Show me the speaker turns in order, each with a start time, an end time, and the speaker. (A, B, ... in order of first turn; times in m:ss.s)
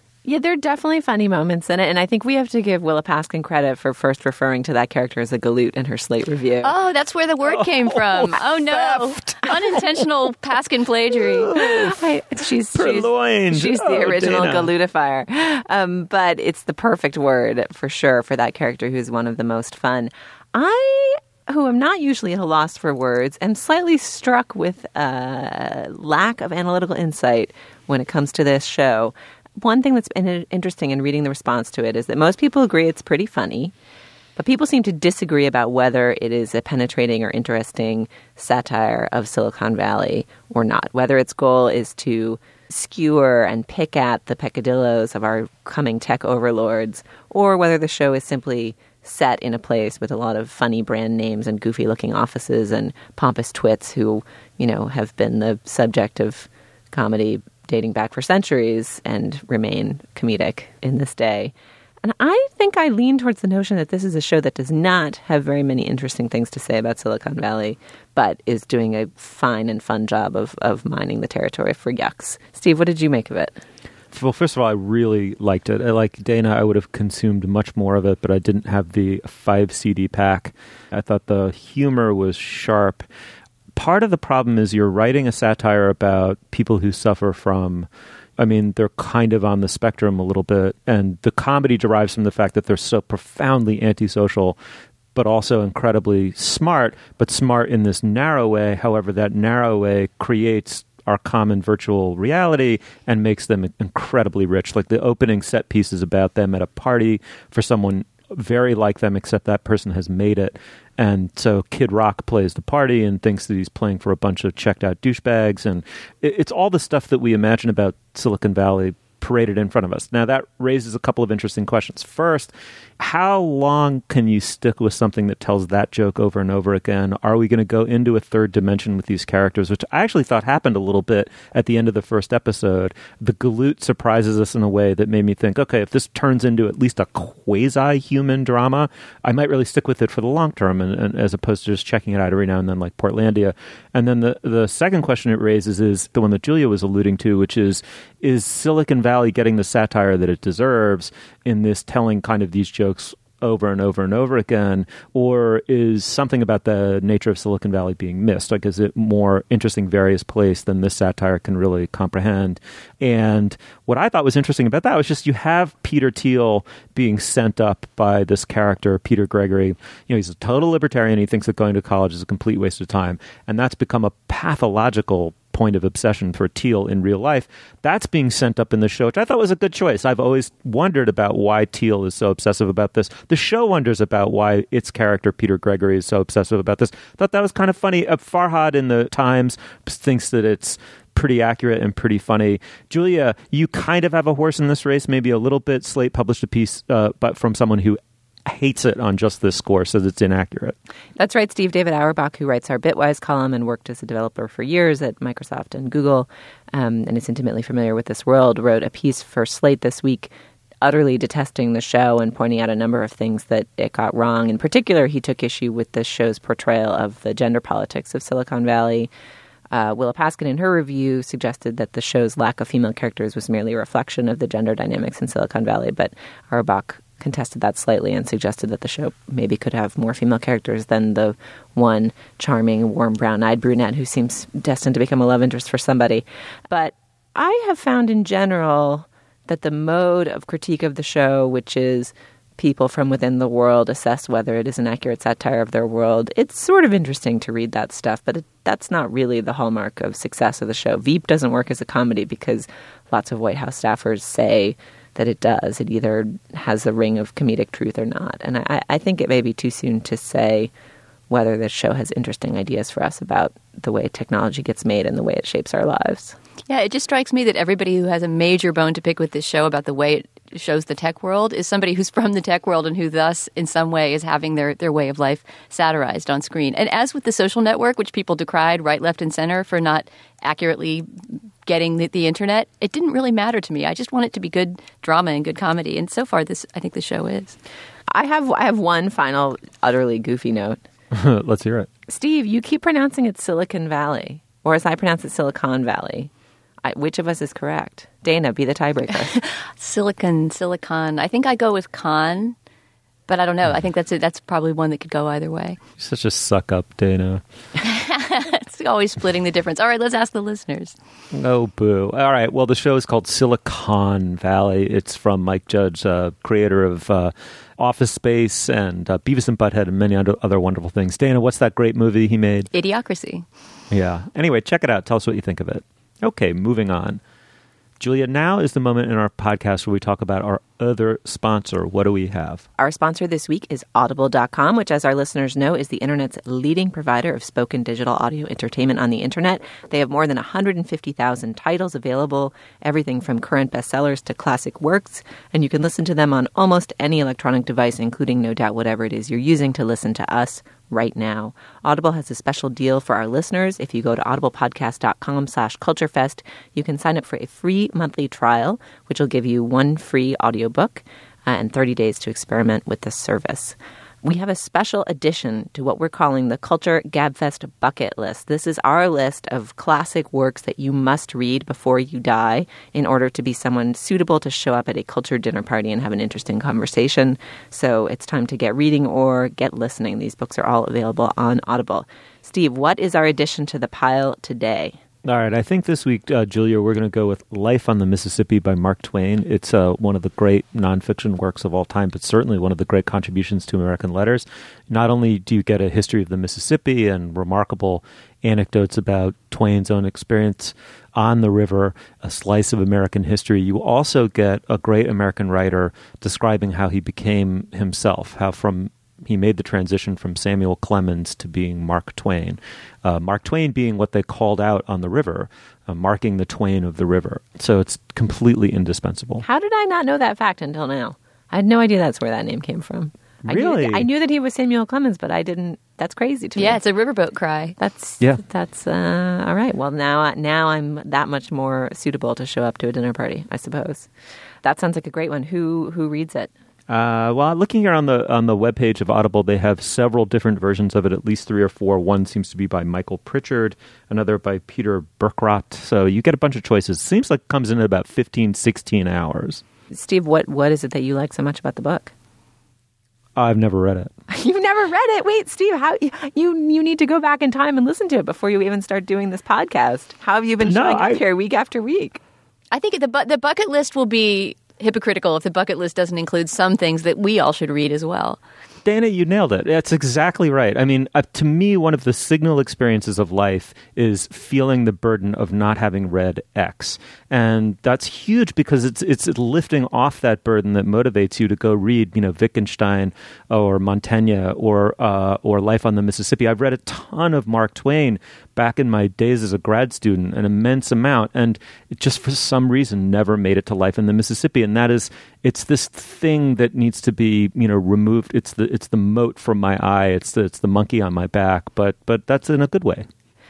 0:00.2-0:06.7 A
0:06.6-0:11.5 B
0:08.3-0:09.3 C
0:11.5-0:12.0 C
0:11.5-0:33.7 A
0:12.8-0:14.7 C
0:34.4-1:13.6 A
1:14.1-1:23.0 C
1:23.8-1:34.6 C
1:35.2-3:20.8 C
3:21.2-3:39.1 A
3:39.7-4:20.7 A
4:21.3-4:26.4 A
4:26.7-4:41.1 B
4:41.6-4:47.6 B
4:48.1-4:50.8 A
4:51.1-4:51.9 C
4:52.1-4:56.3 A
4:56.8-4:59.4 A
4:59.4-5:02.6 B
5:03.3-5:05.8 B
5:06.0-5:07.4 C
5:07.8-5:11.0 B
5:11.3-5:22.7 C
5:22.7-5:23.5 B
5:23.9-5:27.2 C
5:28.0-5:32.7 C
5:32.8-6:25.0 A
6:25.2-6:59.4 C
6:59.4-7:06.8 A
7:03.4-7:04.1 C
7:06.6-7:07.8 B
7:07.8-7:14.1 A
7:14.6-7:16.5 A
7:16.9-7:29.6 C
7:29.9-7:32.1 A
7:33.4-7:34.1 C
7:34.3-7:42.2 A
7:40.6-7:41.2 C
7:42.7-7:48.4 B
7:48.8-8:23.1 C